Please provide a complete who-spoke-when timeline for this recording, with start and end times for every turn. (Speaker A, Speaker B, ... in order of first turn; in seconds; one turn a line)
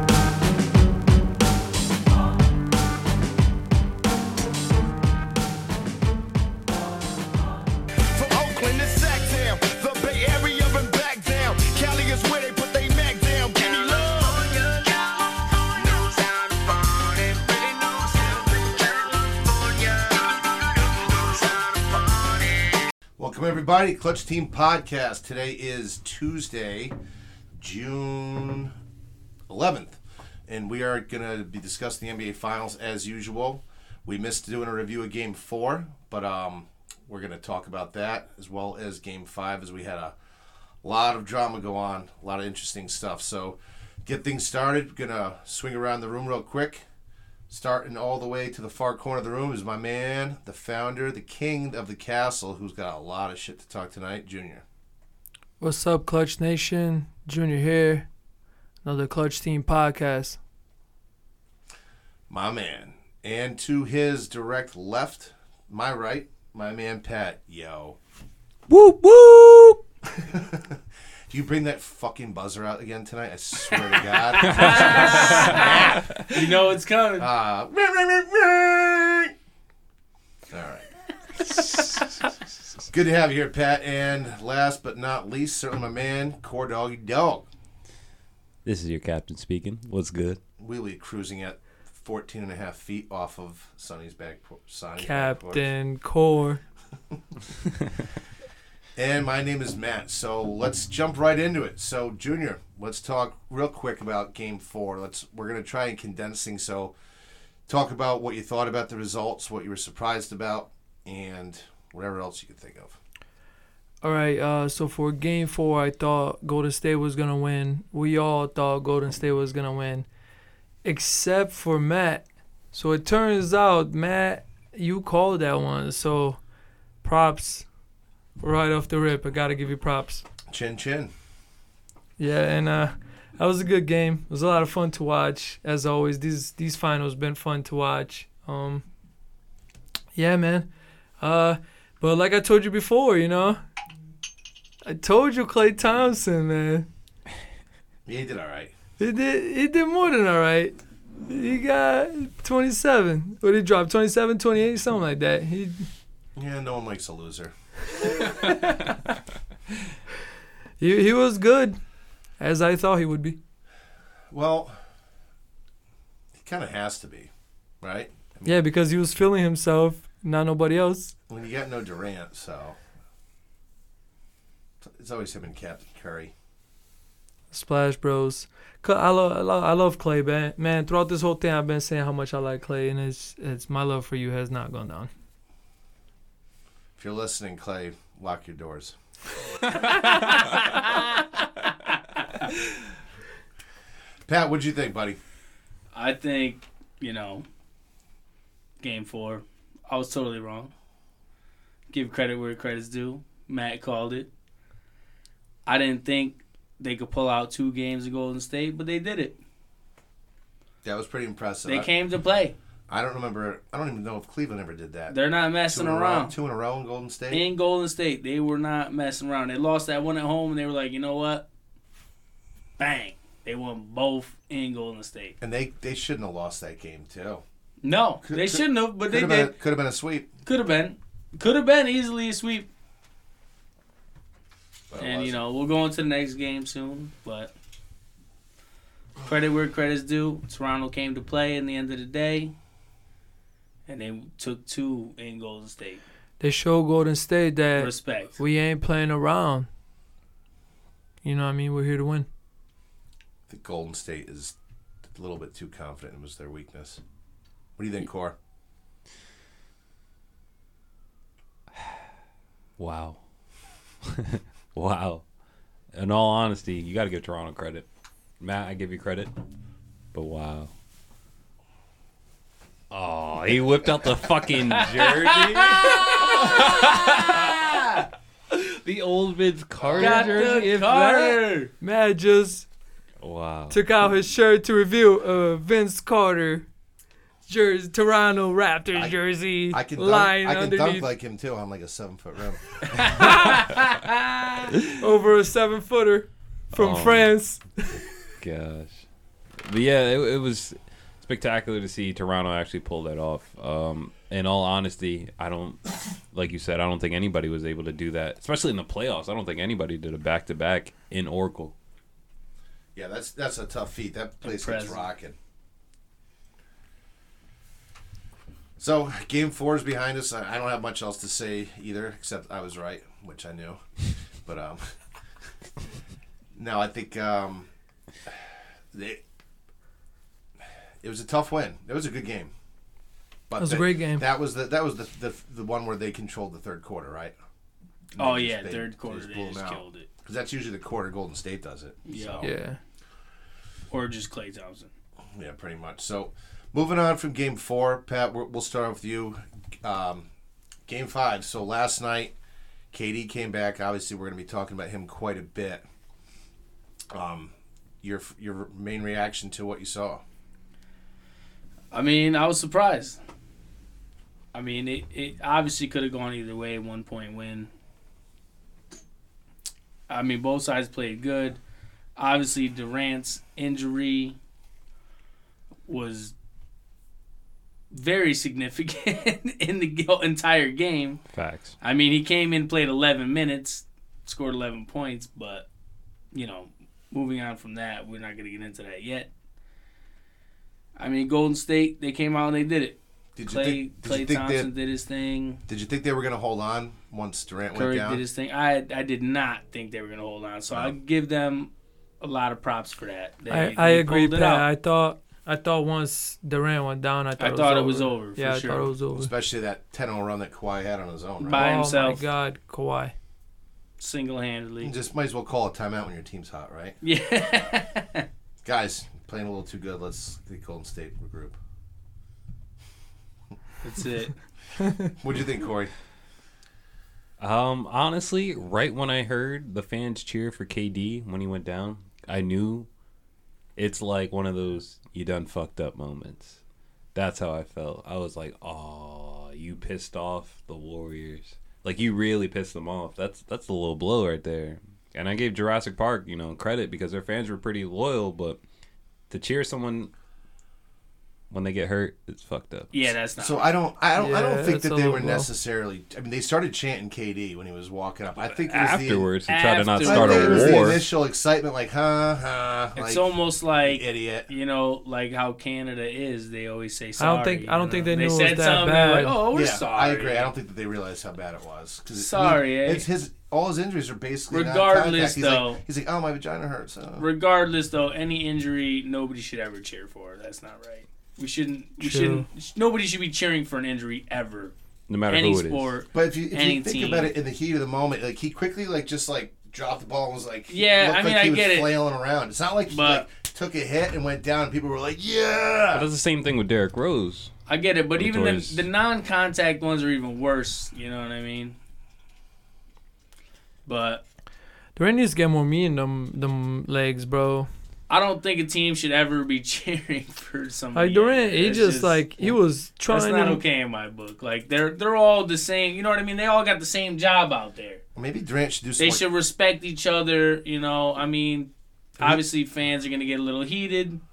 Speaker A: 8.1-22.8
Speaker B: 23.2-26.9
Speaker B: 27.6-28.8
Speaker B: 29.5-40.1
Speaker B: 40.8-46.9
Speaker B: 47.5-54.6
Speaker C: 55.6-58.1
Speaker C: 58.8-60.4
Speaker B: 62.3-68.0
Speaker C: 68.7-69.8
Speaker B: 70.2-76.1
Speaker D: 74.4-77.3
Speaker E: 74.5-75.4
Speaker B: 77.2-79.3
Speaker B: 80.5-80.9
Speaker B: 82.9-87.5
Speaker E: 88.7-90.4
Speaker B: 90.6-95.7
Speaker C: 95.0-96.6
Speaker B: 99.0-106.9
Speaker B: 107.7-113.0
Speaker C: 114.0-120.1
Speaker C: 120.8-126.4
Speaker C: 127.0-127.7
Speaker C: 128.4-130.2
Speaker B: 130.5-131.1
Speaker C: 132.2-138.8
Speaker C: 140.2-140.7
Speaker C: 141.2-143.6
Speaker C: 144.8-146.9
Speaker B: 148.1-148.8
Speaker C: 149.0-155.9
Speaker B: 156.4-157.5
Speaker C: 158.2-158.8
Speaker C: 160.8-161.8
Speaker C: 162.4-163.4
Speaker B: 164.3-164.8
Speaker B: 166.4-167.3
Speaker B: 167.8-168.6
Speaker C: 168.4-171.1
Speaker B: 171.3-172.8
Speaker B: 174.8-176.3
Speaker C: 177.5-185.1
Speaker B: 187.0-189.0
Speaker B: 194.3-195.2
Speaker D: 195.9-197.4
Speaker D: 198.8-200.7
Speaker D: 201.9-204.3
Speaker D: 205.7-209.4
Speaker B: 210.8-211.9
Speaker D: 211.7-212.6
Speaker B: 212.9-215.2
Speaker D: 215.1-216.3
Speaker B: 215.7-217.5
Speaker D: 217.3-221.4
Speaker D: 222.8-225.4
Speaker B: 225.4-227.4
Speaker D: 227.8-229.6
Speaker B: 228.2-230.3
Speaker D: 230.5-232.7
Speaker B: 234.9-235.4
Speaker D: 235.0-237.5
Speaker D: 239.2-242.5
Speaker D: 243.9-246.0
Speaker C: 246.4-249.7
Speaker D: 247.8-248.4
Speaker C: 251.2-252.3
Speaker B: 253.5-254.6
Speaker B: 255.1-257.0
Speaker B: 257.8-258.4
Speaker E: 261.7-262.0
Speaker E: 262.8-263.2
Speaker E: 264.1-265.2
Speaker E: 265.9-267.9
Speaker E: 268.4-269.3
Speaker E: 270.1-270.7
Speaker E: 272.9-280.7
Speaker D: 274.8-278.0
Speaker B: 279.8-280.2
Speaker D: 280.0-281.7
Speaker C: 280.2-282.7
Speaker E: 283.2-283.8
Speaker C: 283.7-286.7
Speaker C: 287.5-291.1
Speaker B: 288.9-289.2
Speaker B: 289.7-293.3
Speaker D: 293.1-294.0
Speaker C: 293.2-293.5
Speaker C: 295.0-298.0
Speaker E: 296.7-297.3
Speaker E: 298.4-299.1
Speaker E: 299.6-311.7
Speaker B: 312.9-315.4
Speaker D: 314.4-315.1
Speaker B: 318.8-323.9
Speaker B: 324.4-324.9
Speaker B: 326.5-327.7
Speaker B: 328.3-329.2
Speaker B: 331.0-332.5
Speaker B: 333.5-337.3
Speaker C: 333.6-334.2
Speaker B: 338.1-342.5
Speaker D: 338.2-340.1
Speaker D: 342.1-342.5
Speaker C: 342.4-342.8
Speaker D: 343.9-344.9
Speaker B: 345.4-350.3
Speaker B: 350.9-352.3
Speaker B: 352.9-355.8
Speaker B: 357.1-360.2
Speaker D: 361.9-363.2
Speaker D: 364.5-367.7
Speaker D: 370.1-371.6
Speaker D: 372.2-374.4
Speaker D: 375.9-376.3
Speaker D: 377.9-381.2
Speaker E: 381.3-381.8
Speaker D: 381.8-385.6
Speaker D: 386.3-389.3
Speaker D: 391.0-395.6
Speaker B: 393.4-394.7
Speaker B: 395.7-398.2
Speaker D: 397.7-404.7
Speaker B: 400.7-401.0
Speaker C: 403.5-409.3
Speaker D: 407.4-408.9
Speaker B: 409.1-411.7
Speaker D: 411.4-412.2
Speaker C: 411.5-413.1
Speaker D: 414.0-414.9
Speaker B: 414.8-417.0
Speaker D: 417.0-418.2
Speaker B: 418.6-421.6
Speaker D: 423.8-424.4
Speaker B: 425.1-425.9
Speaker E: 427.4-432.9
Speaker E: 433.8-436.6
Speaker E: 437.1-448.6
Speaker E: 449.3-450.1
Speaker E: 451.5-452.9
Speaker D: 452.9-453.7
Speaker B: 453.4-459.3
Speaker C: 454.2-455.5
Speaker E: 458.6-461.0
Speaker D: 459.5-461.0
Speaker B: 460.0-464.5
Speaker D: 463.0-470.5
Speaker C: 467.2-469.4
Speaker B: 469.5-477.3
Speaker D: 472.2-473.1
Speaker D: 474.5-475.8
Speaker D: 477.2-484.7
Speaker C: 482.0-482.5
Speaker E: 485.1-485.9
Speaker D: 485.3-487.4
Speaker B: 486.1-496.1
Speaker D: 490.7-491.9
Speaker D: 492.9-493.3
Speaker E: 495.9-497.5
Speaker D: 497.7-501.8
Speaker E: 498.2-498.9
Speaker D: 503.9-504.2
Speaker C: 505.0-507.7
Speaker D: 508.1-512.6
Speaker C: 510.9-513.6
Speaker D: 513.1-518.0
Speaker B: 518.2-519.2
Speaker D: 519.0-524.2